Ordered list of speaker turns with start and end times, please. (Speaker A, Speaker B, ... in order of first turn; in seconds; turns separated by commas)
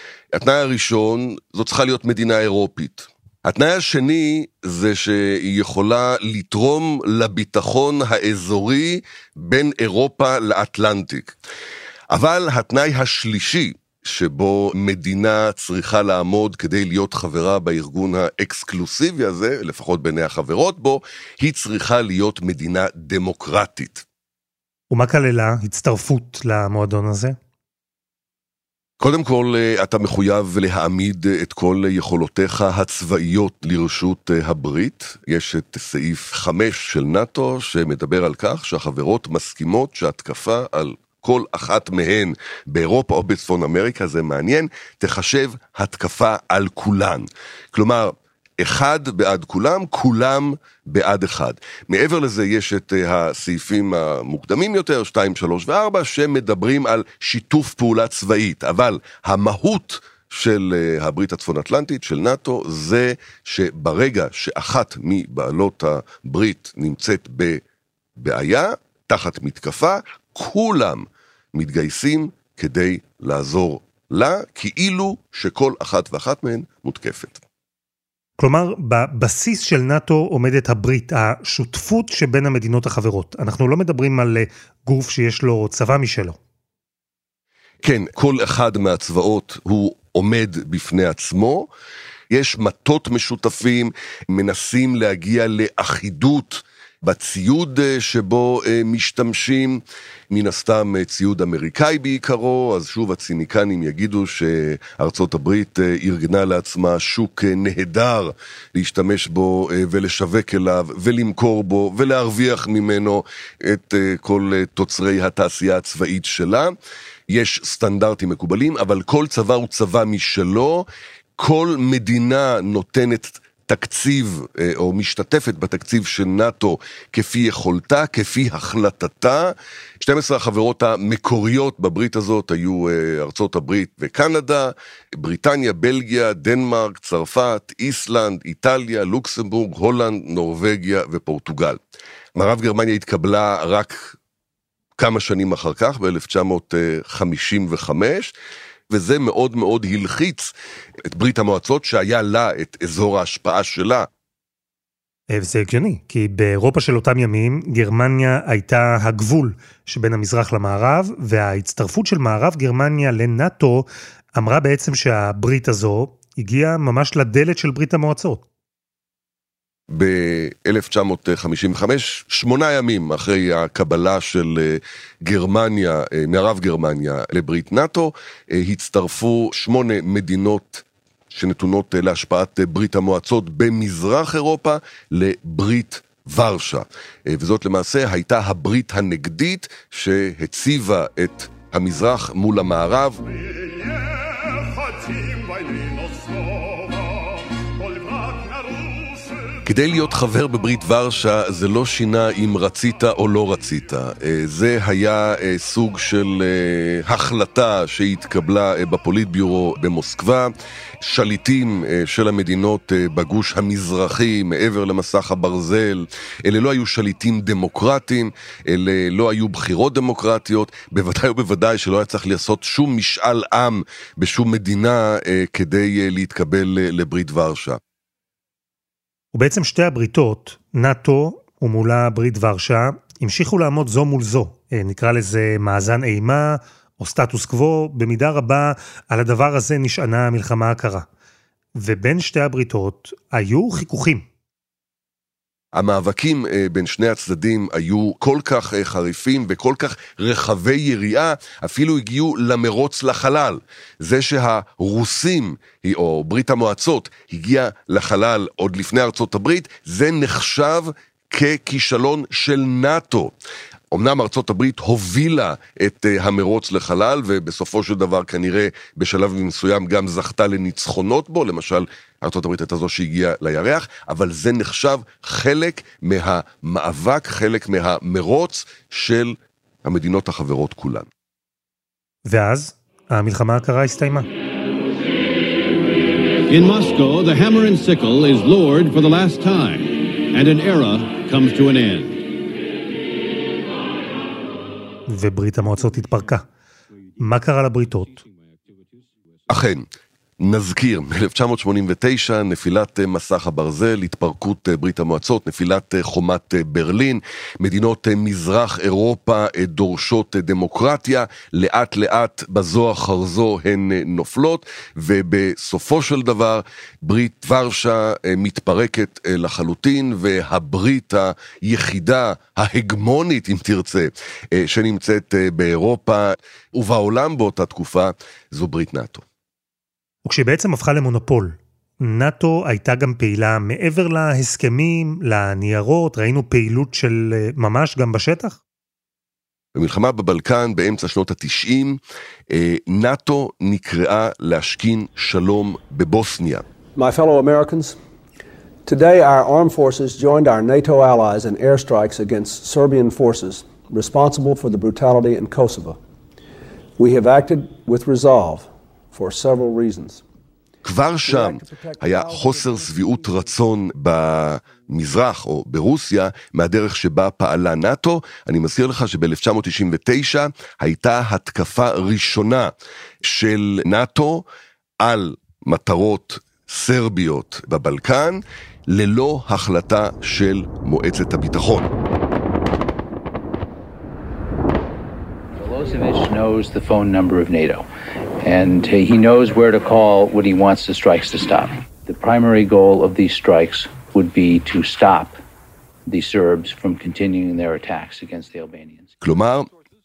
Speaker A: 0.3-11.4, Speaker A: 12.1-24.0, Speaker B: 24.9-27.4, Speaker A: 29.0-67.6, Speaker A: 68.2-77.4, Speaker B: 78.4-86.4, Speaker A: 87.8-91.7, Speaker A: 92.3-116.7, Speaker A: 117.3-120.8, Speaker A: 121.4-141.8, Speaker A: 142.3-144.2, Speaker A: 145.0-148.3, Speaker A: 148.9-150.5, Speaker A: 151.0-154.1, Speaker B: 155.3-168.4, Speaker A: 169.9-193.2, Speaker A: 199.6-210.5, Speaker A: 211.0-227.8, Speaker B: 229.3-241.1, Speaker B: 241.8-244.3, Speaker A: 245.7-263.4, Speaker A: 263.9-281.1, Speaker B: 282.3-284.3, Speaker C: 286.5-292.2, Speaker B: 295.1-296.4, Speaker B: 297.2-298.2, Speaker A: 299.5-299.9, Speaker A: 300.4-329.2, Speaker B: 330.2-338.6, Speaker A: 339.8-346.6, Speaker D: 346.9-348.0, Speaker D: 348.9-356.0, Speaker D: 357.0-360.2, Speaker A: 360.8-374.4, Speaker D: 361.3-363.1, Speaker A: 375.0-381.9, Speaker E: 385.6-387.9, Speaker E: 388.4-395.4, Speaker E: 396.1-399.1, Speaker A: 399.2-399.7